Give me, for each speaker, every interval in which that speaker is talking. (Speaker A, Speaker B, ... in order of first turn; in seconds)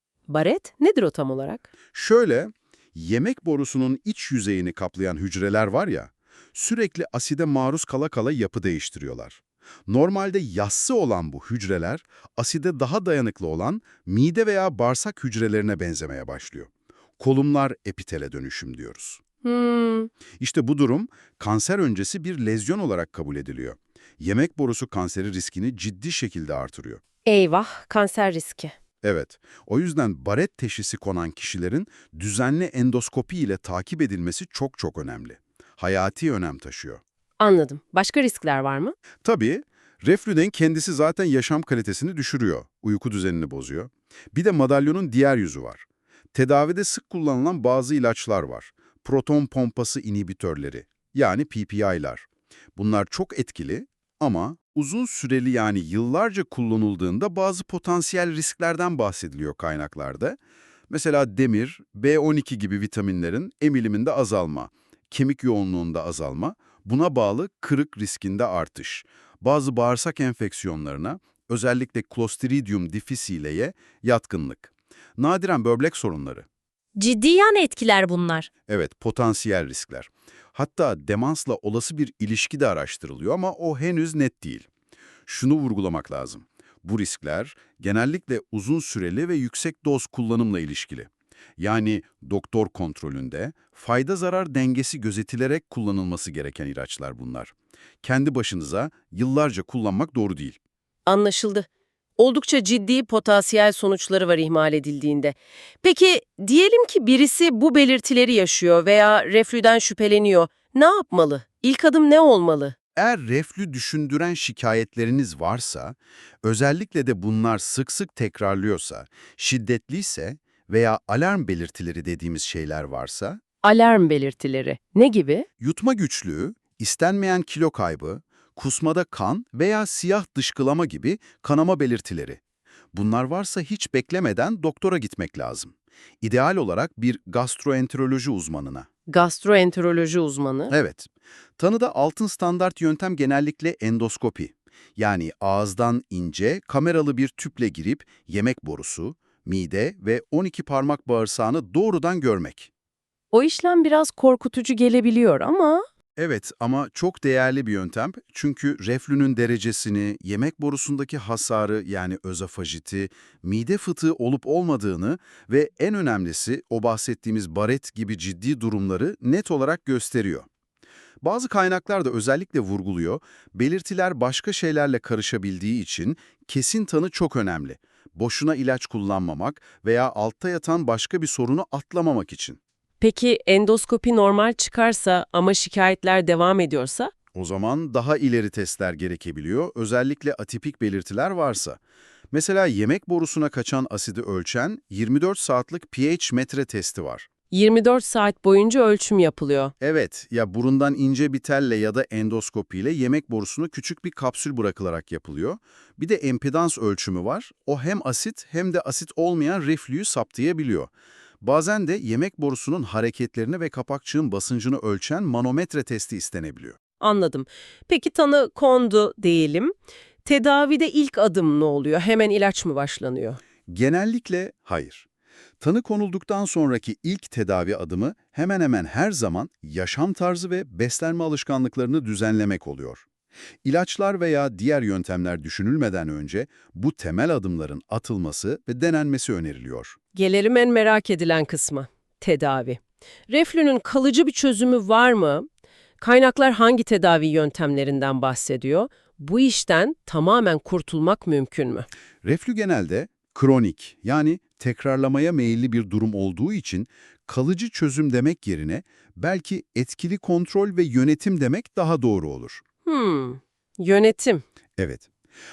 Speaker A: 0.3-1.7, 19.4-20.1, 27.3-28.7, 37.4-39.0, 77.0-78.5, 101.1-112.8, 123.6-125.5, 139.1-140.7, 153.3-155.8, 183.0-187.1, 197.5-199.7, 217.0-219.7, 220.2-223.4, 240.2-245.5, 246.0-251.9, 262.9-264.4
Speaker B: 1.9-19.2, 20.4-27.0, 29.0-37.0, 39.2-60.4, 60.9-76.5, 78.7-84.7, 85.3-100.6, 113.0-123.4, 125.6-132.4, 132.9-138.9, 140.7-152.7, 156.2-170.5, 171.2-182.6, 187.3-191.8, 192.3-197.3, 199.8-216.8, 223.7-225.1, 225.6-233.1, 233.6-240.0, 252.2-262.6, 264.8-265.1